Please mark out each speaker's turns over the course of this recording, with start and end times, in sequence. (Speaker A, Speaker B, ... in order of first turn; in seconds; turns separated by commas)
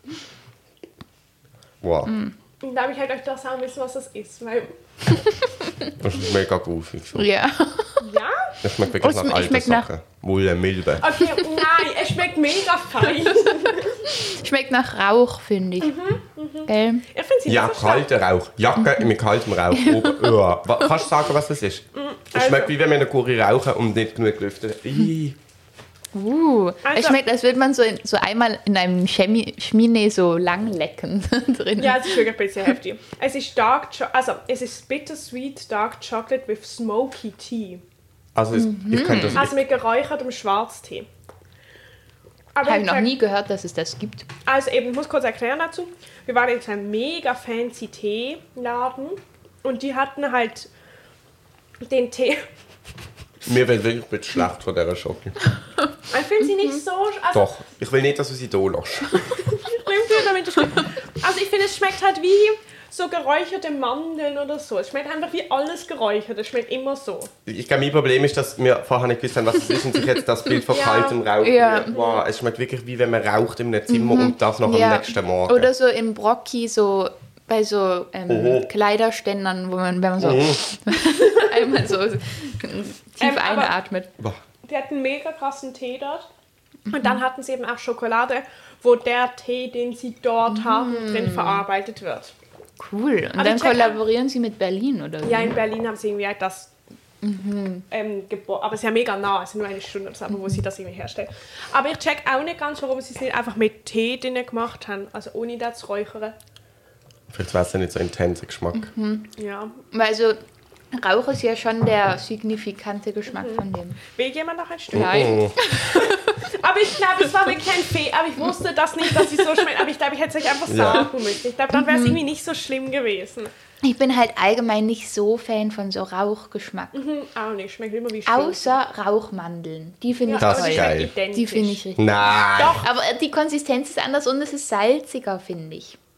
Speaker A: 1.8-2.1, Speaker B: 2.1-2.4, Speaker C: 2.6-4.7, Speaker A: 6.0-7.3, Speaker B: 7.2-8.1, Speaker C: 8.0-8.5, Speaker A: 8.6-11.1, Speaker B: 8.9-9.9, Speaker C: 11.0-14.1, Speaker B: 13.5-16.0, Speaker C: 15.8-18.1, Speaker B: 16.7-17.1, Speaker A: 17.5-25.4, Speaker B: 18.8-19.1, Speaker B: 19.7-20.9, Speaker C: 21.9-22.7, Speaker B: 26.1-32.7, Speaker C: 26.9-27.2, Speaker C: 31.8-37.8, Speaker A: 38.4-39.6, Speaker B: 38.5-39.4, Speaker C: 39.4-41.1, Speaker C: 42.5-43.1, Speaker B: 42.6-44.3, Speaker C: 44.5-50.7, Speaker C: 51.8-52.5, Speaker A: 53.5-55.4, Speaker C: 56.1-57.5, Speaker A: 57.3-59.4, Speaker C: 59.5-67.3, Speaker A: 67.5-75.7, Speaker C: 70.7-71.2, Speaker B: 71.4-71.9, Speaker C: 71.9-72.2, Speaker B: 73.9-84.1, Speaker A: 78.3-78.7, Speaker A: 80.2-80.6, Speaker C: 83.2-83.7, Speaker C: 84.6-86.3, Speaker B: 86.9-87.2, Speaker C: 86.9-92.3, Speaker B: 90.5-91.7, Speaker B: 92.8-95.6, Speaker C: 93.4-94.0, Speaker C: 95.2-96.7, Speaker B: 97.2-97.8, Speaker C: 97.9-106.3, Speaker B: 100.3-100.6, Speaker A: 107.3-108.9, Speaker B: 108.7-109.3, Speaker C: 109.4-109.8, Speaker B: 109.9-110.4, Speaker B: 110.9-114.0, Speaker C: 113.3-123.5, Speaker B: 114.9-116.4, Speaker A: 114.9-115.6, Speaker A: 120.7-121.1, Speaker B: 121.8-122.2, Speaker B: 123.8-127.0, Speaker C: 126.9-128.8, Speaker B: 128.3-136.0, Speaker C: 130.3-131.8, Speaker A: 130.4-131.1, Speaker A: 132.0-132.8